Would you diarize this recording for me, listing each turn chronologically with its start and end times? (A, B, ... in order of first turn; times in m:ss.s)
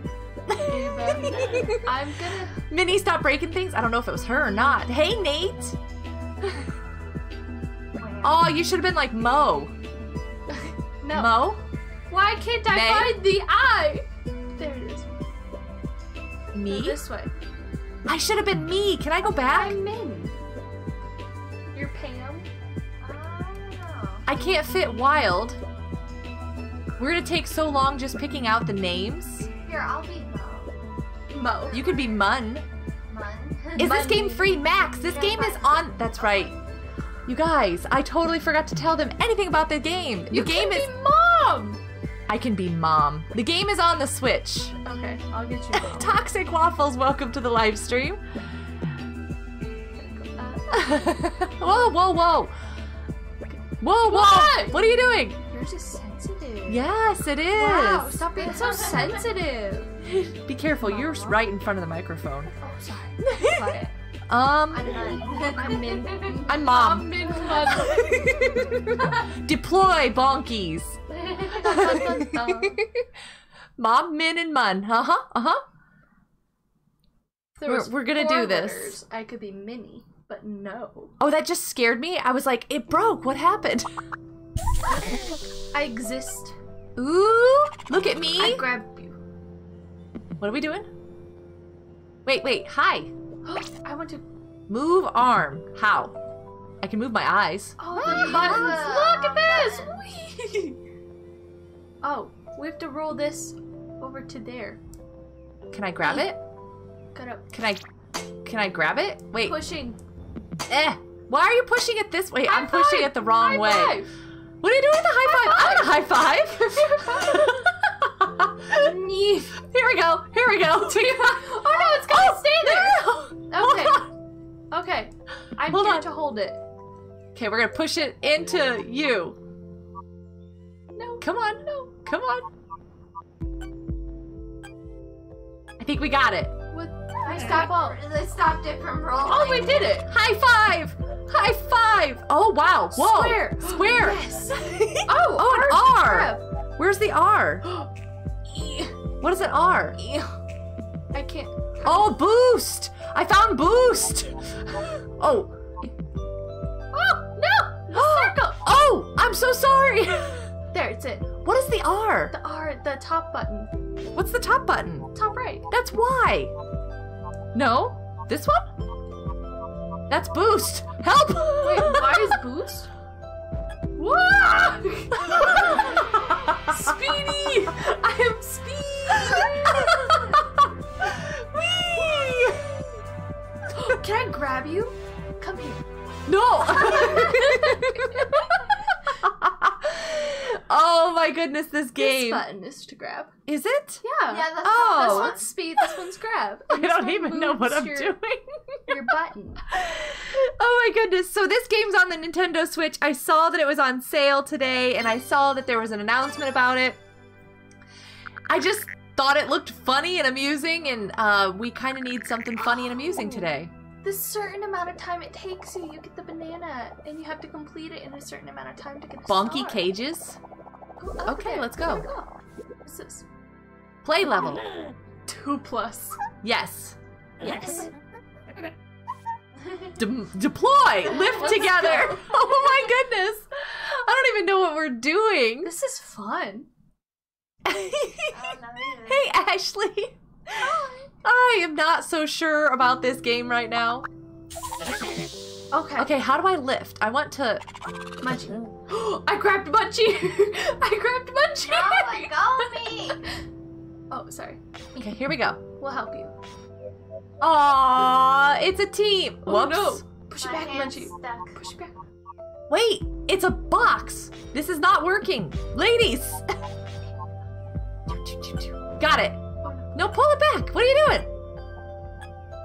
0:00.5-0:01.9 A
0:00.6-0:02.6 B
0:02.7-0:05.8 A
0:08.0-0:08.4 C
0:08.2-0:09.7 A
0:10.5-0:11.4 B
0:11.1-0:11.6 A
0:12.1-0:15.1 B
0:12.7-0:13.2 A
0:16.5-0:17.0 A
0:16.6-0:17.3 B
0:18.1-0:19.8 A
0:19.5-0:20.3 B
0:21.7-0:22.5 B
0:23.0-0:24.3 C
0:24.2-0:25.6 A
0:27.0-0:29.5 A
0:29.6-0:30.7 C
0:31.3-0:31.8 B
0:31.6-0:32.3 C
0:31.7-0:32.6 A
0:33.1-0:34.1 C
0:33.8-0:36.6 A
0:33.8-0:34.6 B
0:35.1-0:36.5 C
0:37.2-0:40.9 A
0:40.3-0:41.8 B
0:42.3-0:44.8 A
0:44.8-0:46.1 B
0:45.7-0:48.2 A
0:49.9-0:51.5 B
0:50.7-0:52.6 A
0:53.8-0:55.4 A
0:54.1-0:54.9 B
0:55.5-0:56.9 B
0:56.7-0:58.3 A
0:57.5-1:00.0 B
0:58.5-0:59.1 C
1:00.2-1:02.5 A
1:00.8-1:01.3 B
1:02.6-1:03.9 B
1:03.2-1:03.8 A
1:04.3-1:05.0 A
1:04.7-1:06.4 C
1:05.6-1:09.0 B
1:06.4-1:11.0 A
1:11.1-1:11.6 C
1:11.4-1:12.9 B
1:11.6-1:12.8 A
1:13.8-1:15.6 A
1:17.6-1:21.1 B
1:17.6-1:19.0 A
1:21.2-1:23.9 A
1:25.7-1:26.6 B
1:27.0-1:28.7 A
1:28.4-1:29.2 B
1:30.4-1:30.9 A
1:32.2-1:33.1 A
1:33.4-1:34.2 B
1:34.7-1:36.1 A
1:36.8-1:38.7 A
1:37.8-1:40.8 B
1:38.0-1:39.9 C
1:42.0-1:44.8 B
1:45.7-1:46.4 A
1:46.0-1:46.3 B
1:47.1-1:47.4 B
1:47.5-1:47.8 A
1:48.4-1:49.6 A
1:49.4-1:50.0 B
1:50.7-1:54.0 A
1:52.4-1:54.1 B
1:54.6-1:58.9 A
1:55.2-1:57.6 B
1:58.7-1:59.6 B
1:59.6-2:04.1 A
2:00.7-2:04.1 B
2:04.7-2:06.6 B
2:05.7-2:06.1 A
2:07.4-2:09.4 A
2:11.0-2:11.9 B
2:11.2-2:12.5 A
2:15.8-2:16.5 A
2:16.7-2:18.0 B
2:17.2-2:19.9 C
2:19.2-2:20.1 B
2:20.0-2:27.6 A
2:22.9-2:26.4 B
2:27.6-2:27.9 B
2:28.5-2:28.9 B
2:29.2-2:30.0 A
2:30.0-2:30.3 B
2:31.1-2:32.1 B
2:31.8-2:35.9 A
2:36.9-2:38.6 B
2:37.9-2:40.5 A
2:40.7-2:41.3 B
2:41.4-2:42.3 A
2:42.3-2:43.7 B
2:44.1-2:45.1 A
2:45.1-2:45.7 B
2:45.7-2:46.5 A
2:47.5-2:48.7 A
2:50.1-2:52.4 A
2:51.6-2:52.9 B
2:54.0-3:00.4 B
2:55.4-2:56.6 A
2:59.2-3:02.8 A
3:03.7-3:05.8 B
3:06.3-3:12.4 A
3:06.7-3:08.6 B
3:12.0-3:13.3 B
3:13.5-3:14.0 A
3:14.0-3:18.2 B
3:14.3-3:15.5 C
3:14.6-3:15.4 A
3:16.7-3:19.0 A
3:18.9-3:19.6 B
3:19.7-3:27.0 A
3:28.5-3:33.7 A
3:32.7-3:33.5 B
3:34.0-3:39.9 B
3:39.3-3:40.4 A
3:41.0-3:42.3 B
3:41.2-3:42.0 A
3:42.8-3:43.2 B
3:44.0-3:44.7 A
3:45.3-3:46.2 B
3:46.4-3:47.0 A
3:47.4-3:47.9 B
3:49.6-3:49.9 C
3:50.0-3:55.7 A
3:51.2-3:52.4 B
3:51.2-3:52.0 C
3:55.6-3:56.7 B
3:57.6-4:00.7 A
3:58.3-3:59.4 C
4:00.5-4:01.1 B
4:01.2-4:04.0 A
4:05.7-4:06.1 B
4:06.0-4:07.6 A
4:08.2-4:13.4 B
4:11.6-4:13.2 C
4:14.1-4:14.6 B
4:15.0-4:15.6 A
4:15.8-4:16.3 B
4:17.4-4:20.0 A
4:19.4-4:21.9 B
4:20.4-4:21.6 C
4:22.7-4:26.4 A
4:28.1-4:29.4 A
4:29.6-4:29.9 B
4:29.9-4:31.3 A